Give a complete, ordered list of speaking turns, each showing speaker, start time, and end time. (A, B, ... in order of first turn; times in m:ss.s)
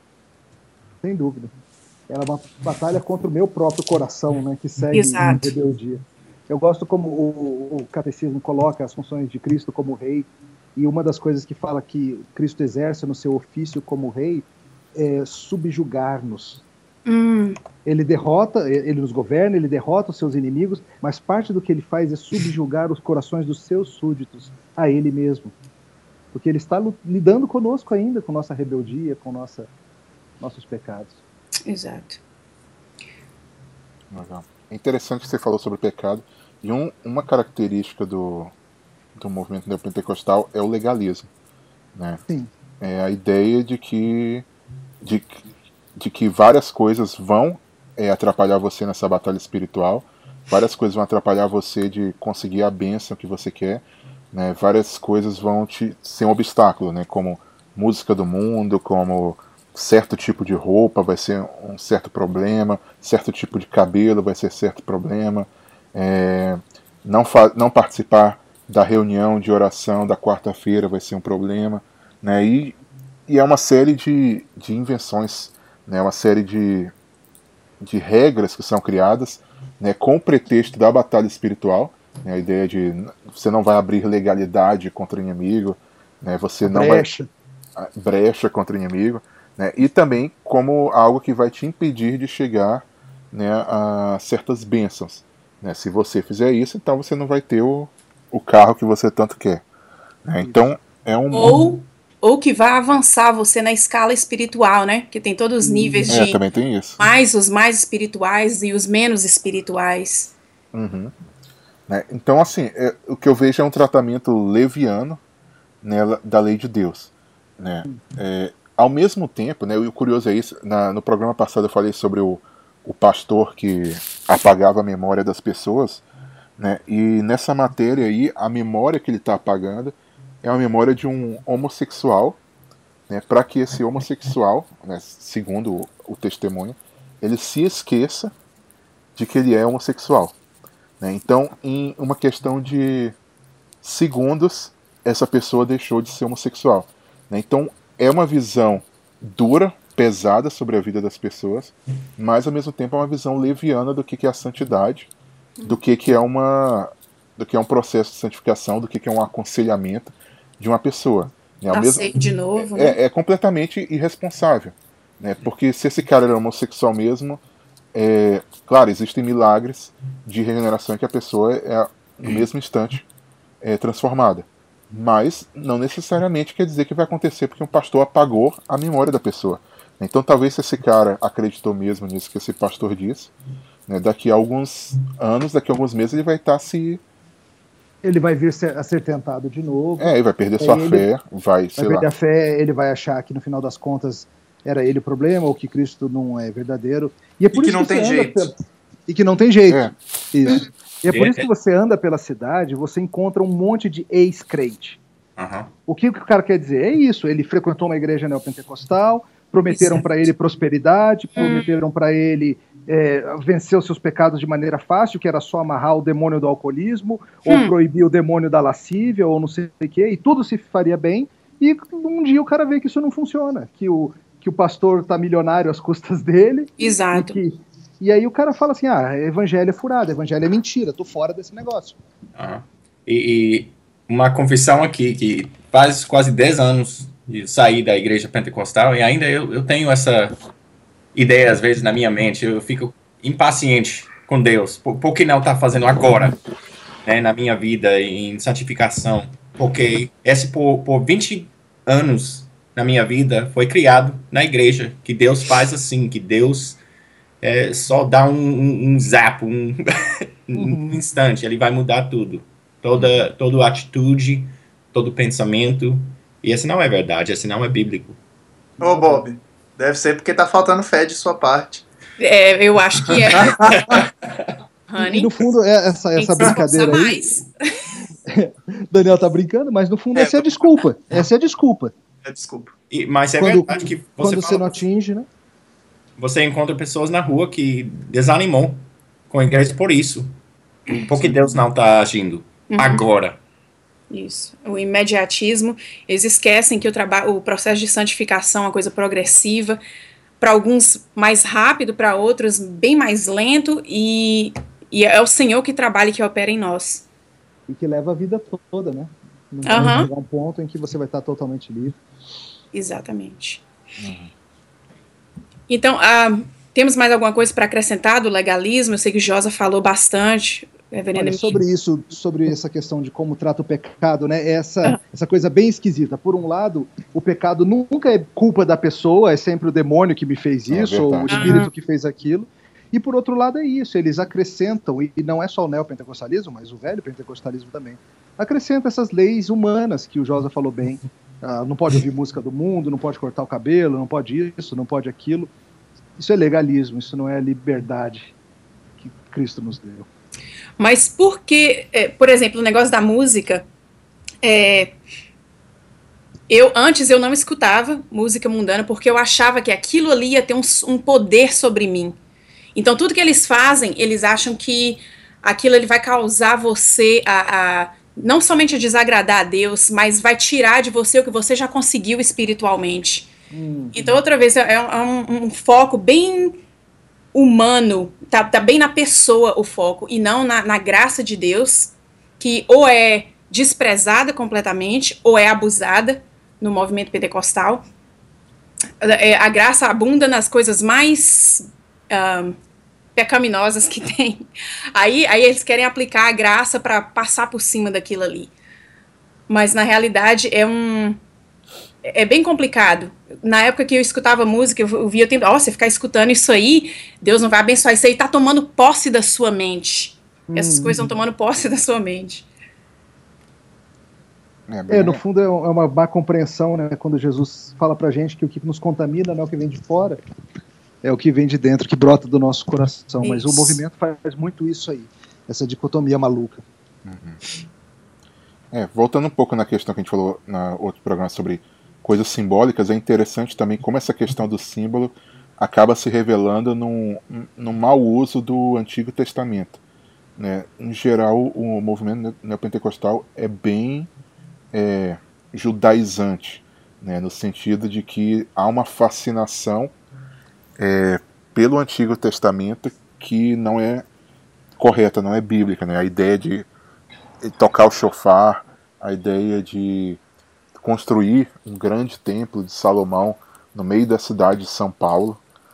0:01.0-0:01.5 A
0:02.1-0:16.6 A
0:04.9-0:05.5 B
0:17.0-0:17.6 B
0:17.8-0:25.5 A
0:26.3-0:29.7 A
0:30.4-0:31.2 A
0:31.7-0:32.2 B
0:34.1-0:38.5 C
0:39.2-0:41.3 C
0:41.9-0:42.2 C
0:42.8-0:44.4 C
0:45.0-0:45.4 C
0:46.0-1:12.8 C
1:13.3-1:16.9 C
1:17.8-1:27.1 C
1:26.6-1:27.3 A
1:27.8-1:39.6 C
1:40.2-1:41.6 C
1:40.4-1:40.7 A
1:41.3-1:46.4 B
1:45.6-1:46.2 A
1:46.1-1:47.0 C
1:47.0-1:50.3 B
1:50.7-1:51.1 C
1:51.9-1:55.2 C
1:55.8-2:06.0 C
2:06.6-2:12.4 C
2:13.1-2:18.3 C
2:19.1-2:20.4 C
2:21.0-2:23.1 C
2:23.8-2:35.1 C
2:35.6-2:47.4 C
2:41.7-2:43.0 B
2:47.9-2:53.0 C
2:53.6-3:03.3 C
3:03.9-3:07.0 C
3:08.0-3:11.1 A
3:10.0-3:12.1 C
3:11.8-3:18.5 A
3:17.5-3:18.5 D
3:19.1-3:25.0 A
3:21.1-3:21.5 E
3:25.4-3:25.7 E
3:25.9-3:52.0 A
3:31.4-3:31.7 B
3:37.4-3:37.7 B
3:46.8-3:47.4 B
3:52.4-4:00.3 E
4:01.1-4:06.4 E
4:07.0-4:16.8 E
4:17.4-4:28.2 E
4:20.6-4:21.0 A
4:28.8-4:31.8 D
4:28.8-4:29.2 A
4:32.2-4:33.5 B
4:33.3-4:34.0 D
4:33.6-4:34.0 E
4:34.9-4:35.3 B
4:35.0-4:37.1 A
4:36.2-4:37.5 B
4:38.3-4:41.9 A
4:40.2-4:40.6 D
4:42.2-4:42.7 D
4:42.9-4:44.8 E
4:43.4-4:45.3 A
4:46.2-4:50.3 E
4:50.9-4:53.4 E
4:52.7-4:53.0 B
4:54.1-4:59.8 B
5:00.4-5:07.0 B
5:07.7-5:12.0 A
5:09.6-5:10.1 B
5:12.7-5:13.6 B
5:14.0-5:14.3 C
5:15.7-5:21.6 B
5:21.2-5:45.5 A
5:30.7-5:31.6 C
5:31.3-5:31.7 B
5:46.2-5:48.3 A
5:49.0-5:50.1 A
5:50.8-5:53.6 B
5:54.4-5:55.0 B
5:56.5-6:02.2 B
6:02.7-6:13.3 B
6:13.5-6:14.0 A
6:13.9-6:16.5 B
6:17.3-6:27.8 B
6:29.0-6:32.6 B
6:33.2-6:38.5 B
6:39.5-6:41.2 B
6:42.0-6:52.5 B
6:50.5-6:51.1 A
6:54.7-6:55.2 C
6:54.9-7:00.2 A
7:01.0-7:06.6 A
7:03.2-7:03.8 B
7:07.0-7:07.4 C
7:08.7-7:19.8 C
7:20.4-7:24.1 C
7:24.7-7:29.9 C
7:30.8-7:34.0 C
7:34.8-7:36.7 C
7:37.4-7:40.2 C
7:40.8-7:45.4 C